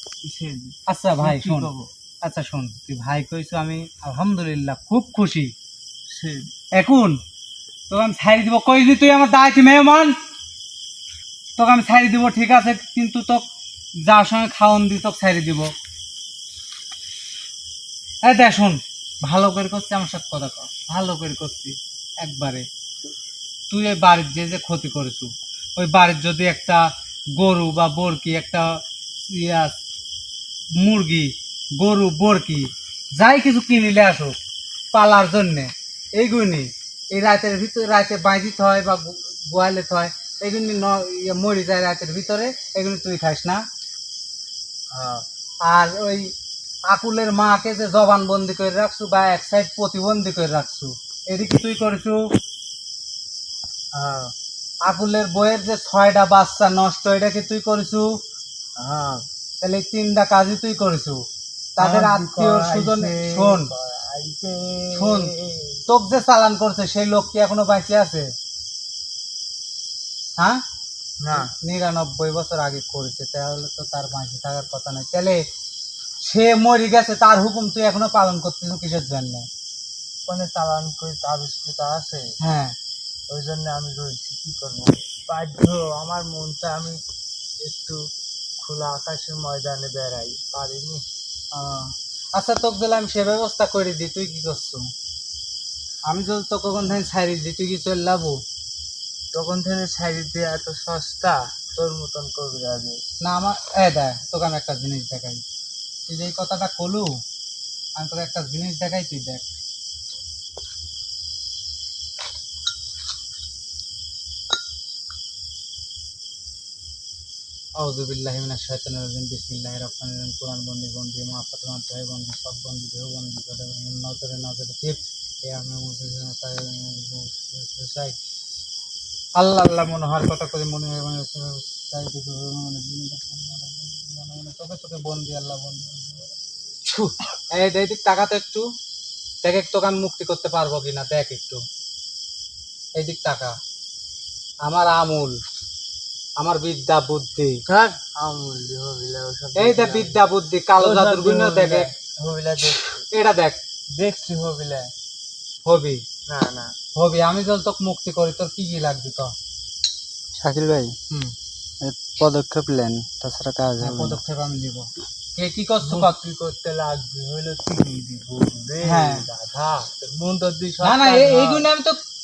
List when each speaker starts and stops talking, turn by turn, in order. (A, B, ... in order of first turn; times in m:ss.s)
0:00.2-0:01.9 A
0:00.9-0:01.7 B
0:02.2-0:05.5 B
0:06.1-0:06.5 A
0:06.8-0:07.2 B
0:07.9-0:10.2 B
0:11.6-0:13.4 B
0:14.0-0:15.7 B
0:18.2-0:22.7 B
0:23.7-0:28.8 B
0:29.3-0:29.8 B
0:30.8-0:34.4 B
0:34.9-0:43.6 B
0:44.9-0:45.2 A
0:45.7-0:46.3 B
0:46.9-0:52.2 B
0:53.9-0:54.3 A
0:54.8-0:58.2 B
0:58.8-0:59.2 A
0:59.6-1:01.2 B
1:01.8-1:03.7 B
1:01.8-1:05.8 A
1:04.9-1:05.3 B
1:05.9-1:08.3 B
1:11.2-1:11.5 A
1:11.3-1:15.4 B
1:16.2-1:19.5 B
1:20.3-1:22.3 A
1:22.4-1:22.8 B
1:23.3-1:27.0 A
1:27.6-1:28.0 A
1:28.6-1:31.0 A
1:31.5-1:34.8 B
1:36.1-1:38.4 B
1:39.3-1:43.0 A
1:43.2-1:45.4 B
1:46.1-1:47.2 B
1:48.0-1:49.4 B
1:57.8-2:08.2 B
2:09.4-2:18.6 B
2:19.4-2:21.6 B
2:23.0-2:23.6 B
2:24.6-2:25.4 B
2:26.4-2:27.6 B
2:27.7-2:30.2 A
2:29.6-2:31.9 B
2:30.8-2:33.0 A
2:33.1-2:33.6 B
2:34.0-2:34.9 A
2:35.6-2:36.0 B
2:36.3-2:36.7 A
2:37.0-2:39.3 B
2:40.4-2:41.0 C
2:41.8-2:44.2 C
2:43.8-2:46.2 B
2:45.8-2:51.7 A
2:48.8-2:49.3 B
2:50.8-2:52.0 B